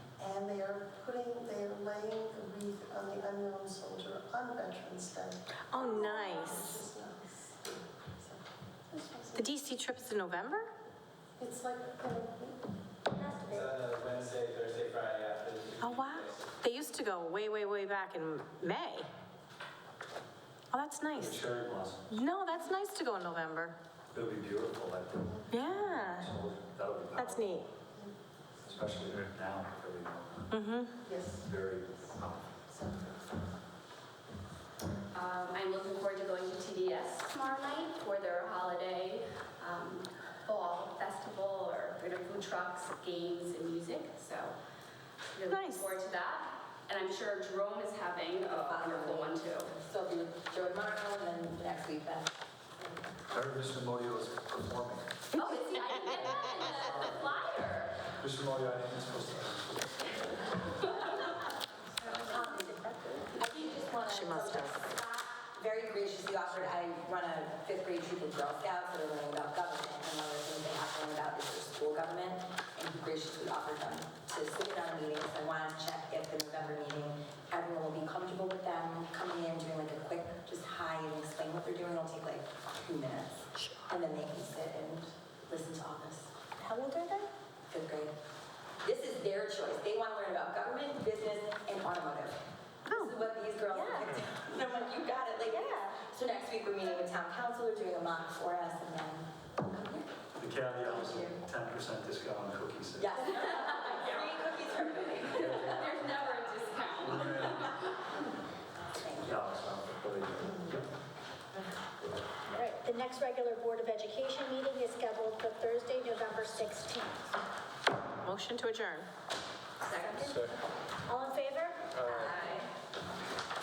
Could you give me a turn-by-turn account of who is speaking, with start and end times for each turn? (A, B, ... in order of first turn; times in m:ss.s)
0:00.2-0:09.5 A
0:05.7-0:06.8 B
0:09.4-0:10.7 B
0:11.4-0:13.6 A
0:13.3-0:16.5 C
0:15.8-0:19.1 B
0:20.7-0:21.4 B
0:21.1-0:22.1 D
0:22.1-0:23.8 B
0:24.1-0:27.7 D
0:25.5-0:26.3 B
0:27.1-0:27.6 B
0:28.6-0:30.6 D
0:30.5-0:30.9 B
0:31.0-0:31.5 A
0:31.4-0:32.5 D
0:32.7-0:33.4 A
0:35.1-0:44.5 E
0:45.3-0:49.7 E
0:45.5-0:45.9 B
0:48.5-0:52.3 F
0:53.3-0:55.1 D
0:55.3-0:58.1 E
0:58.2-1:00.3 D
1:01.0-1:01.2 E
1:02.1-1:26.4 F
1:04.0-1:04.8 B
1:26.6-1:27.3 B
1:27.7-1:28.1 F
1:28.8-1:32.4 F
1:32.9-1:33.2 B
1:32.9-1:40.0 F
1:33.7-1:34.1 B
1:35.5-1:35.8 B
1:40.4-1:43.1 D
1:40.8-1:41.4 F
1:43.0-1:45.9 F
1:45.4-1:45.7 D
1:45.4-1:47.9 E
1:47.1-1:47.6 D
1:49.0-1:49.4 F
1:49.2-1:50.9 D
1:52.5-1:57.4 G
1:58.2-1:59.1 B
1:59.8-2:00.5 F
2:01.1-2:02.1 G
2:01.9-2:02.7 F